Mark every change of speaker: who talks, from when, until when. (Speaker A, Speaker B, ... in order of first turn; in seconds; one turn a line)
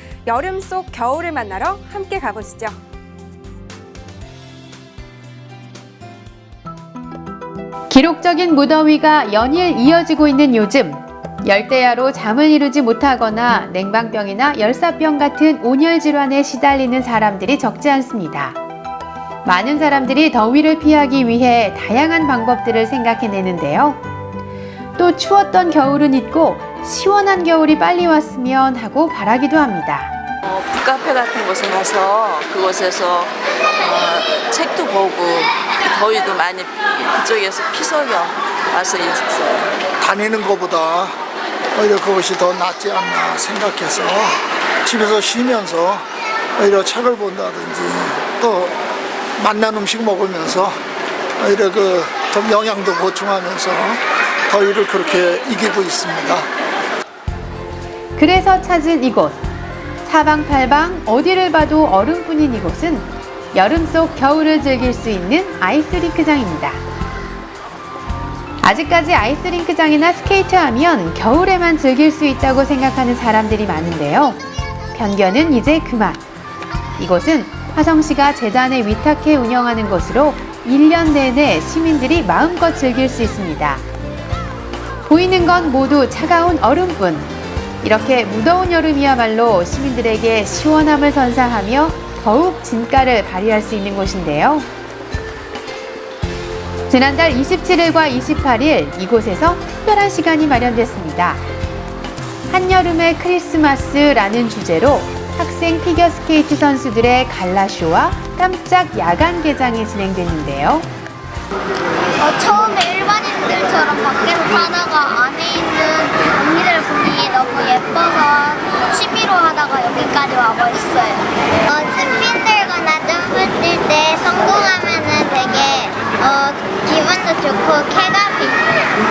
Speaker A: 0.3-2.8
Speaker B: 7.9-18.6
Speaker B: 19.4-24.0
Speaker B: 25.0-30.1
Speaker C: 30.4-39.8
Speaker D: 40.0-41.2
Speaker D: 41.8-46.1
Speaker D: 46.6-48.8
Speaker D: 49.4-50.8
Speaker D: 51.4-56.5
Speaker B: 58.2-59.4
Speaker B: 60.0-66.8
Speaker B: 68.6-74.4
Speaker B: 74.9-76.2
Speaker B: 77.0-83.8
Speaker B: 85.1-87.3
Speaker B: 87.8-94.7
Speaker B: 96.9-101.4
Speaker B: 102.5-110.9
Speaker E: 112.2-128.7